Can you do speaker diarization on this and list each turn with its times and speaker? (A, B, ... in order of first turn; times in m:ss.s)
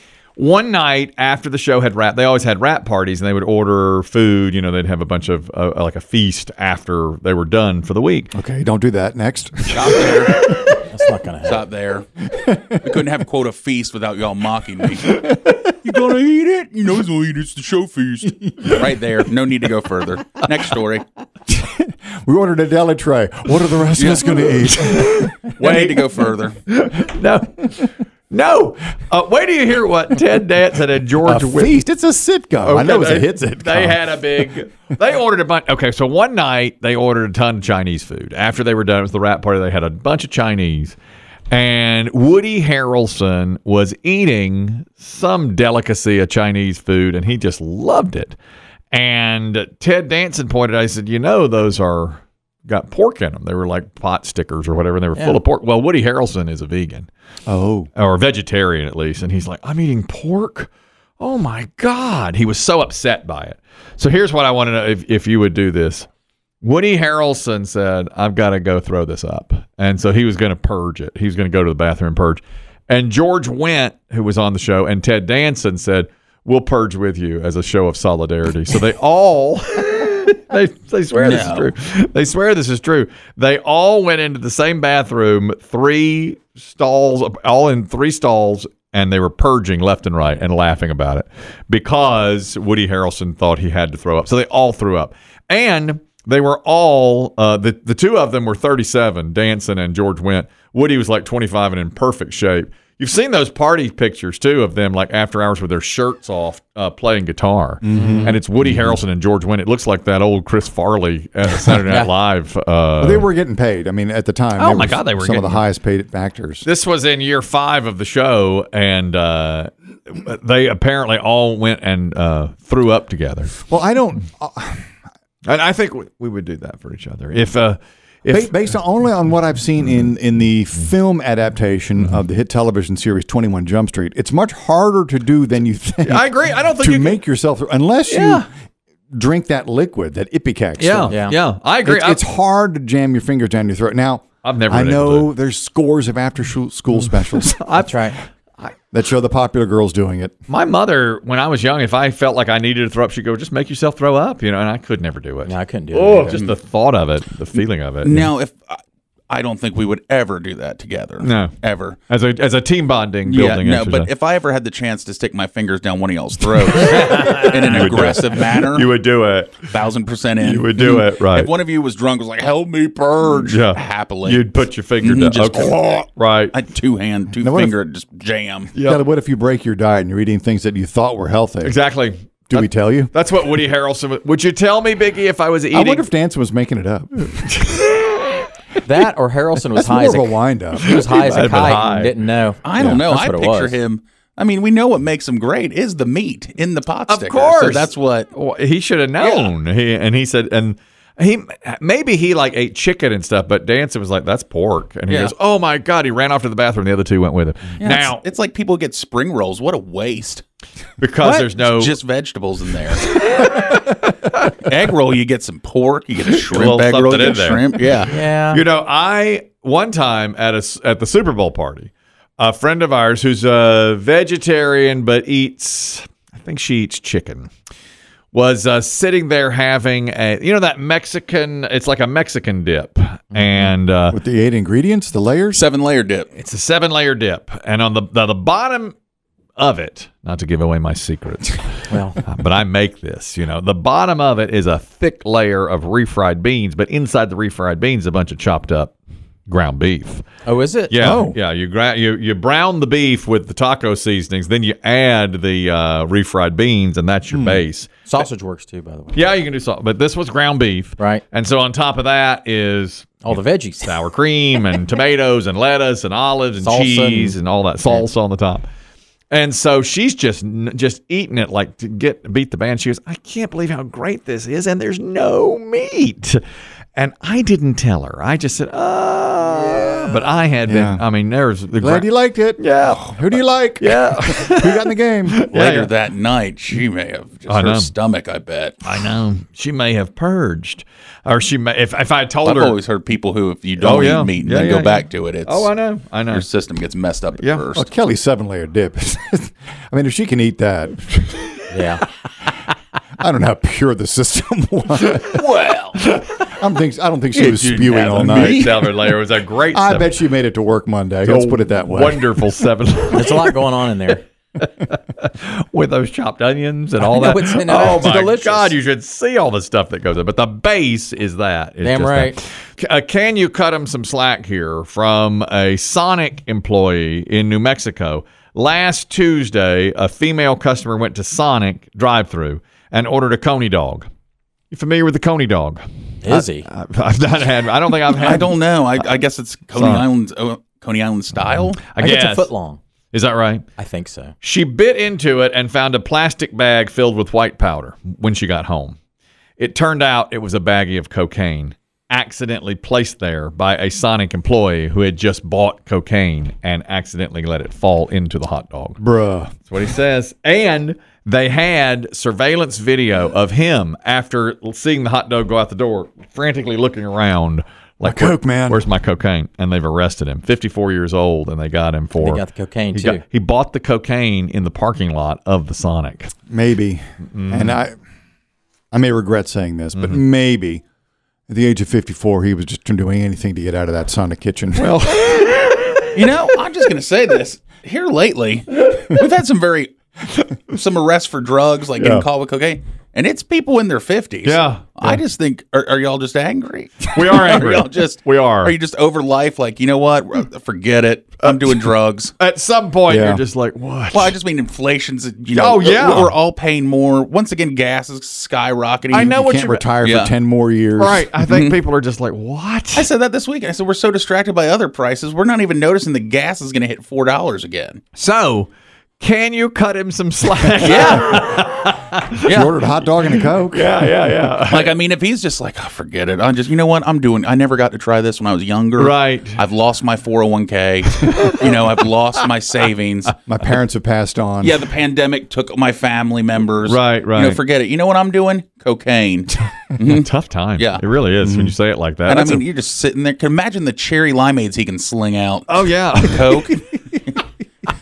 0:00.4-0:08.3 A
0:08.3-0:10.8 B
0:09.7-0:10.5 C
0:10.9-0:11.6 D
0:11.4-0:12.1 C
0:12.3-0:13.0 B
0:12.8-0:15.2 C
0:15.2-0:15.6 B
0:15.8-0:21.0 C
0:21.5-0:25.3 B
0:24.0-0:24.6 C
0:24.9-0:26.0 A
0:25.5-0:26.6 C
0:26.6-0:31.8 A
0:31.2-0:34.0 B
0:32.6-0:41.0 A
0:41.5-0:48.4 A
0:48.9-0:57.1 A
0:55.1-0:55.4 D
0:57.5-0:57.9 B
0:58.0-1:06.1 A
1:06.6-1:53.3 A
1:21.1-1:21.7 C
1:47.8-1:48.4 B
1:48.0-1:48.4 D
1:51.8-1:52.1 D
1:53.0-1:56.6 B
1:54.6-1:55.6 A
1:56.6-2:03.6 A
2:03.6-2:04.9 B
2:05.4-2:08.8 A
2:08.3-2:18.4 B
2:16.0-2:17.2 A
2:18.1-2:18.4 A
2:19.1-2:27.6 B
2:20.8-2:22.2 A
2:21.1-2:21.4 D
2:24.4-2:25.3 A
2:27.3-2:28.7 A
2:27.8-2:28.2 D
2:28.9-2:30.3 B
2:30.5-2:38.3 A
2:35.4-2:36.4 D
2:36.3-2:36.5 C
2:38.0-2:42.0 C
2:41.2-2:44.1 A
2:43.2-2:48.9 C
2:46.7-2:49.7 A
2:49.7-2:56.0 C
2:50.4-2:51.5 A
2:53.2-2:56.5 A
2:56.5-2:58.7 C
2:57.4-2:57.7 B
2:58.7-2:59.0 A
2:58.8-3:01.8 B
3:01.6-3:06.1 A
3:02.5-3:03.1 B
3:05.7-3:07.6 B
3:07.5-3:08.3 A
3:08.8-3:13.8 D
3:09.7-3:11.0 B
3:10.8-3:12.1 A
3:12.6-3:18.3 C
3:17.1-3:28.2 A
3:19.2-3:19.5 C
3:27.8-3:30.4 C
3:31.0-3:32.0 A
3:31.2-3:33.2 C
3:33.1-3:34.5 A
3:34.6-3:38.1 C
3:36.3-3:47.5 A
3:38.1-3:38.6 D
3:48.3-3:54.2 A
3:53.4-3:53.7 D
3:54.1-3:55.6 B
3:55.5-3:56.3 C
3:56.3-3:58.9 A
3:59.6-4:08.9 A
4:01.9-4:02.2 D
4:09.5-4:10.2 A
4:10.4-4:11.2 D
4:10.9-4:18.1 A
4:11.0-4:11.4 B
4:17.3-4:17.6 B
4:18.1-4:19.2 D
4:19.1-4:28.6 A
4:21.0-4:21.2 D
4:23.2-4:23.9 D
4:26.6-4:27.4 D
4:29.3-4:36.4 A
4:36.9-4:45.9 A
4:40.6-4:41.0 B
4:41.8-4:45.4 B
4:45.5-4:49.0 C
4:47.5-4:47.9 A
4:48.8-4:52.8 A
4:52.4-4:55.7 C
4:53.8-4:56.5 A
4:56.3-4:57.9 C
4:57.4-4:57.6 A
4:57.7-5:01.4 B
5:01.7-5:02.0 D
5:03.2-5:05.5 B
5:05.2-5:06.0 C
5:06.1-5:08.8 B
5:07.3-5:08.9 C
5:08.2-5:10.1 A
5:09.7-5:12.5 B
5:11.2-5:13.6 A
5:13.1-5:14.2 D
5:14.6-5:34.1 A
5:17.0-5:18.7 D
5:21.8-5:22.4 D
5:34.7-5:39.2 A
5:36.2-5:36.7 D
5:38.1-5:41.8 C
5:39.7-5:40.1 A
5:41.7-5:42.5 A
5:42.0-5:42.8 D
5:43.1-5:43.6 A
5:43.8-5:44.3 D
5:44.4-5:49.0 A
5:49.6-5:59.0 A
5:59.0-5:59.5 B
5:59.6-6:16.3 A
6:08.0-6:08.8 B
6:12.2-6:13.2 D
6:16.5-6:18.0 B
6:17.3-6:17.8 A
6:18.9-6:20.8 B
6:21.5-6:25.0 B
6:24.7-6:26.5 A
6:26.1-6:29.9 C
6:30.7-6:42.3 C
6:32.0-6:32.3 A
6:34.4-6:35.2 A
6:37.1-6:38.8 A
6:41.4-6:44.4 A
6:43.1-6:43.4 B
6:44.1-6:49.3 C
6:45.5-6:46.4 A
6:49.1-6:49.9 A
6:49.3-6:51.3 B
6:50.0-6:50.3 C
6:51.0-6:53.1 A
6:51.4-6:51.8 C
6:52.9-6:58.0 C
6:58.1-7:05.0 A
7:00.8-7:01.6 C
7:02.4-7:02.7 C
7:02.5-7:03.9 B
7:04.7-7:13.3 C
7:09.0-7:09.6 A
7:11.1-7:12.4 A
7:13.5-7:14.8 B
7:14.6-7:21.0 C
7:16.8-7:17.6 A
7:20.0-7:22.7 A
7:21.4-7:21.7 B
7:22.3-7:27.4 C
7:25.7-7:26.8 A